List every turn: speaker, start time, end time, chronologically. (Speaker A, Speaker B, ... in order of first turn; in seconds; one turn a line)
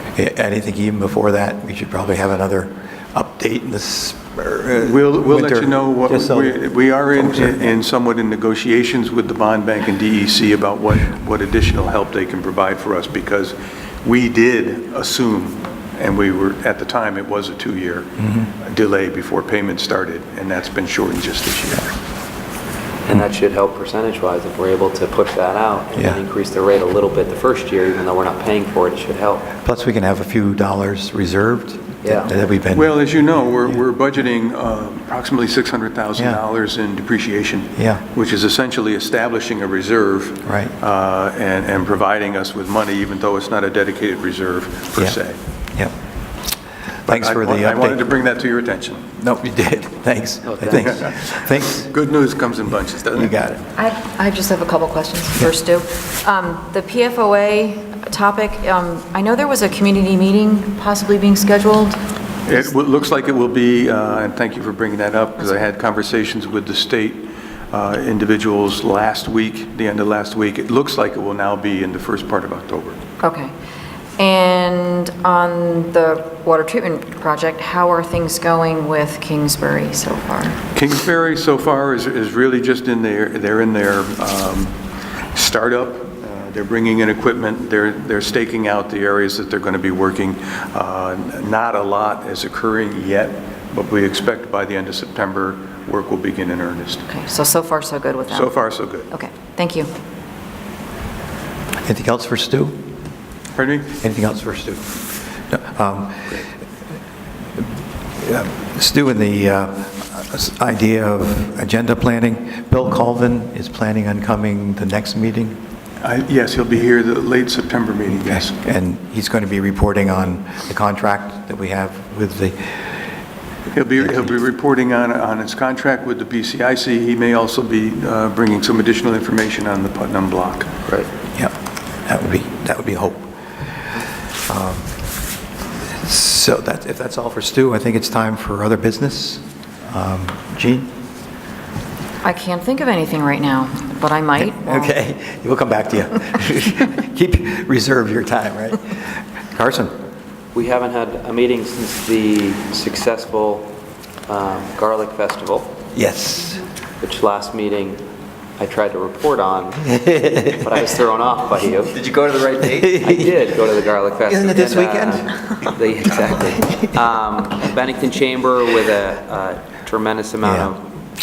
Speaker A: 0.1-6.6
Speaker B: 4.8-21.9
Speaker A: 7.2-7.7
Speaker C: 23.1-29.5
Speaker A: 29.6-33.0
Speaker C: 32.0-32.3
Speaker B: 32.7-45.4
Speaker A: 37.8-38.0
Speaker A: 40.5-40.7
Speaker A: 47.1-48.0
Speaker B: 47.1-49.1
Speaker A: 49.2-51.9
Speaker C: 50.4-51.0
Speaker B: 50.7-53.4
Speaker A: 53.1-53.7
Speaker D: 53.8-62.0
Speaker B: 62.5-73.0
Speaker D: 73.2-73.5
Speaker D: 74.2-80.6
Speaker B: 80.8-84.8
Speaker B: 85.3-97.1
Speaker D: 97.1-99.9
Speaker B: 98.3-99.1
Speaker A: 101.8-102.8
Speaker B: 103.5-104.0
Speaker A: 104.0-106.4
Speaker A: 108.2-115.6
Speaker B: 116.0-118.6
Speaker A: 118.5-122.9
Speaker B: 123.7-130.7
Speaker A: 132.1-133.3
Speaker A: 134.5-134.9
Speaker A: 135.9-140.9
Speaker D: 142.2-144.9
Speaker A: 144.4-149.0
Speaker A: 149.5-149.9
Speaker C: 150.5-153.7
Speaker C: 154.3-155.8
Speaker A: 155.9-156.6
Speaker C: 157.0-158.0
Speaker C: 158.6-170.8
Speaker A: 159.9-160.7
Speaker A: 162.7-163.4
Speaker A: 164.3-165.5
Speaker A: 166.5-167.0
Speaker A: 170.4-170.7